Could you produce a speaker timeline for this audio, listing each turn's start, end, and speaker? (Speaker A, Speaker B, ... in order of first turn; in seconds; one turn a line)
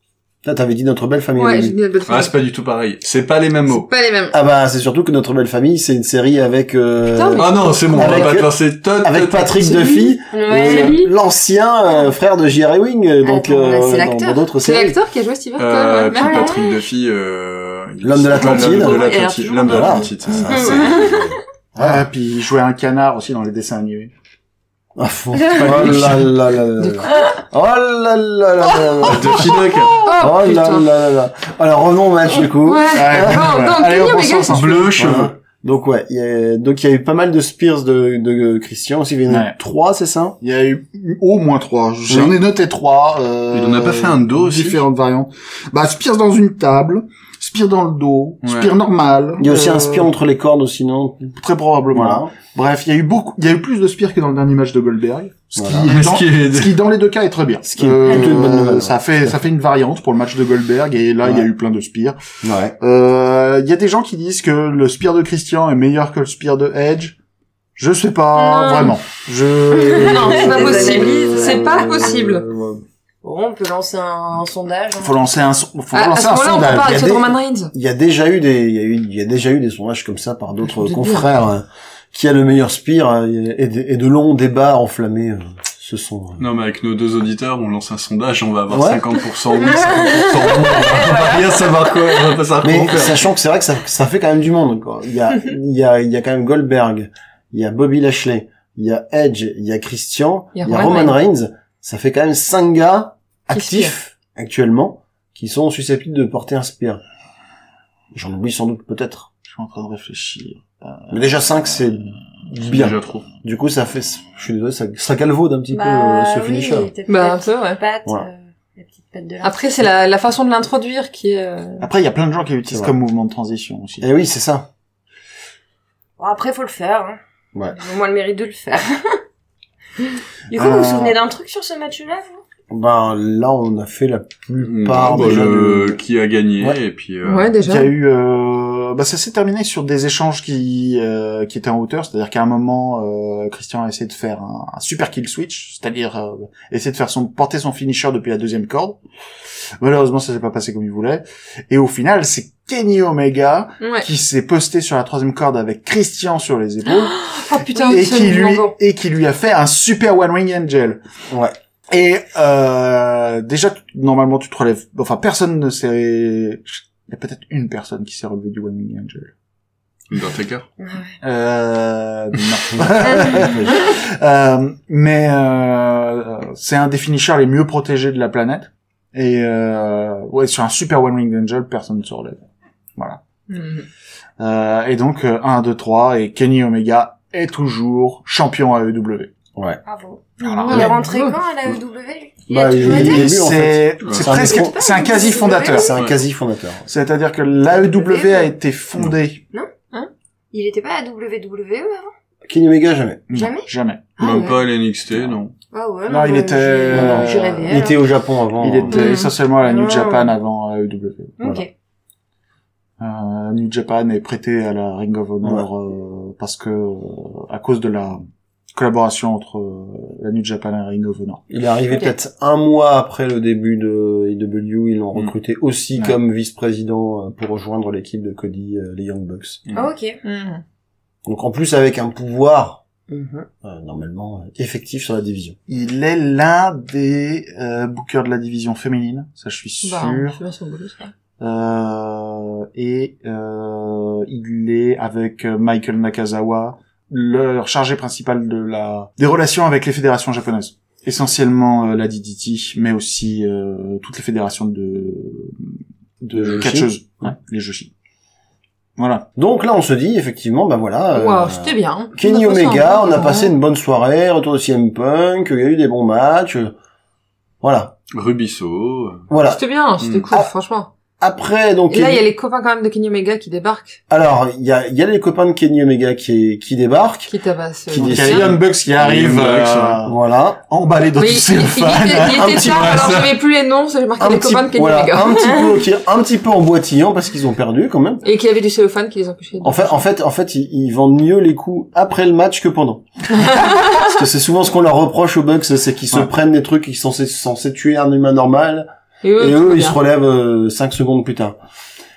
Speaker A: 0.4-1.8
Speaker B: 1.4-2.3
Speaker C: 2.0-3.9
Speaker B: 3.7-4.4
Speaker A: 4.3-14.9
Speaker B: 7.1-8.3
Speaker C: 7.4-9.8
Speaker D: 10.3-11.1
Speaker D: 13.2-14.4
Speaker B: 14.6-16.5
Speaker C: 15.6-21.3
Speaker D: 16.1-16.8
Speaker A: 18.0-19.1
Speaker D: 18.3-21.4
Speaker A: 19.6-21.1
Speaker E: 21.8-24.1
Speaker A: 24.9-33.5
Speaker C: 25.5-26.3
Speaker B: 26.8-27.4
Speaker C: 29.0-30.1
Speaker B: 30.0-30.9
Speaker B: 32.6-34.9
Speaker E: 32.9-35.2
Speaker C: 34.5-35.3
Speaker A: 35.0-40.4
Speaker E: 39.3-39.5
Speaker E: 40.4-50.1
Speaker A: 42.1-42.4
Speaker C: 43.5-44.8
Speaker C: 48.4-48.7
Speaker A: 49.4-51.3
Speaker E: 51.4-62.2
Speaker A: 51.9-52.3
Speaker A: 55.5-55.9
Speaker C: 55.9-56.7
Speaker A: 57.7-59.3
Speaker A: 62.4-62.8
Speaker E: 62.8-67.2
Speaker E: 67.8-70.9
Speaker B: 68.3-68.9
Speaker D: 69.7-71.9
Speaker B: 70.0-72.4
Speaker A: 70.3-72.8
Speaker D: 73.2-75.2
Speaker E: 75.0-77.1
Speaker B: 75.9-77.7
Speaker A: 76.6-86.4
Speaker B: 80.7-81.3
Speaker C: 86.4-93.2
Speaker A: 88.7-89.0
Speaker D: 89.6-92.1
Speaker A: 92.6-107.0
Speaker B: 100.5-101.1
Speaker B: 103.5-103.9
Speaker A: 108.1-109.3
Speaker E: 109.5-111.4
Speaker A: 111.1-116.9
Speaker C: 112.6-113.2
Speaker D: 115.7-119.8
Speaker B: 117.1-117.8
Speaker B: 119.4-121.8
Speaker E: 121.8-124.1
Speaker A: 124.0-124.7
Speaker D: 126.2-127.2
Speaker D: 127.7-129.2
Speaker D: 130.0-132.4
Speaker E: 130.5-131.2
Speaker A: 132.7-136.0
Speaker C: 134.6-137.5
Speaker B: 137.2-137.9
Speaker E: 137.6-149.0
Speaker E: 149.8-157.2
Speaker B: 153.8-154.1
Speaker B: 156.9-158.7
Speaker D: 157.7-158.1
Speaker E: 157.8-161.0
Speaker E: 161.9-169.3
Speaker C: 170.1-170.7
Speaker D: 170.8-171.1
Speaker E: 171.2-182.4
Speaker A: 172.8-173.8
Speaker B: 183.5-183.8
Speaker E: 184.4-189.3
Speaker D: 189.8-193.3
Speaker E: 190.4-190.9
Speaker B: 190.6-191.3
Speaker A: 192.5-194.8
Speaker E: 192.8-195.9
Speaker C: 194.0-194.3
Speaker D: 194.3-196.0
Speaker A: 195.7-196.8
Speaker E: 196.9-199.4
Speaker D: 197.8-198.5
Speaker D: 199.5-202.1
Speaker A: 202.5-203.2
Speaker E: 203.3-204.0
Speaker D: 203.3-204.6
Speaker C: 204.2-205.5
Speaker D: 205.7-208.0
Speaker E: 206.1-207.8
Speaker A: 206.9-208.9
Speaker E: 208.6-211.3
Speaker B: 208.9-209.3
Speaker D: 208.9-210.3
Speaker D: 211.4-211.7
Speaker E: 213.0-218.2
Speaker E: 218.7-221.4
Speaker A: 221.5-229.6
Speaker B: 221.9-222.1
Speaker D: 229.7-230.2
Speaker B: 230.2-230.6
Speaker A: 231.2-232.8
Speaker D: 233.1-233.5
Speaker A: 233.6-235.6
Speaker E: 235.7-240.4
Speaker B: 239.8-241.1
Speaker E: 241.4-257.9
Speaker A: 256.3-256.9
Speaker E: 259.0-259.2
Speaker A: 259.4-266.7
Speaker B: 261.1-263.5
Speaker A: 267.6-267.9
Speaker C: 268.1-269.2
Speaker A: 269.3-269.6
Speaker B: 269.4-270.9
Speaker C: 270.0-270.2
Speaker A: 271.2-272.2
Speaker B: 271.9-274.0
Speaker A: 274.1-277.3
Speaker B: 277.3-278.5
Speaker A: 277.9-278.6
Speaker E: 277.9-283.2
Speaker C: 278.9-280.0
Speaker A: 280.0-280.6
Speaker B: 281.2-285.6
Speaker A: 282.2-283.2
Speaker C: 282.7-283.3
Speaker A: 284.2-288.2
Speaker B: 288.2-290.0
Speaker A: 289.6-301.6
Speaker B: 293.4-294.0
Speaker B: 299.2-300.0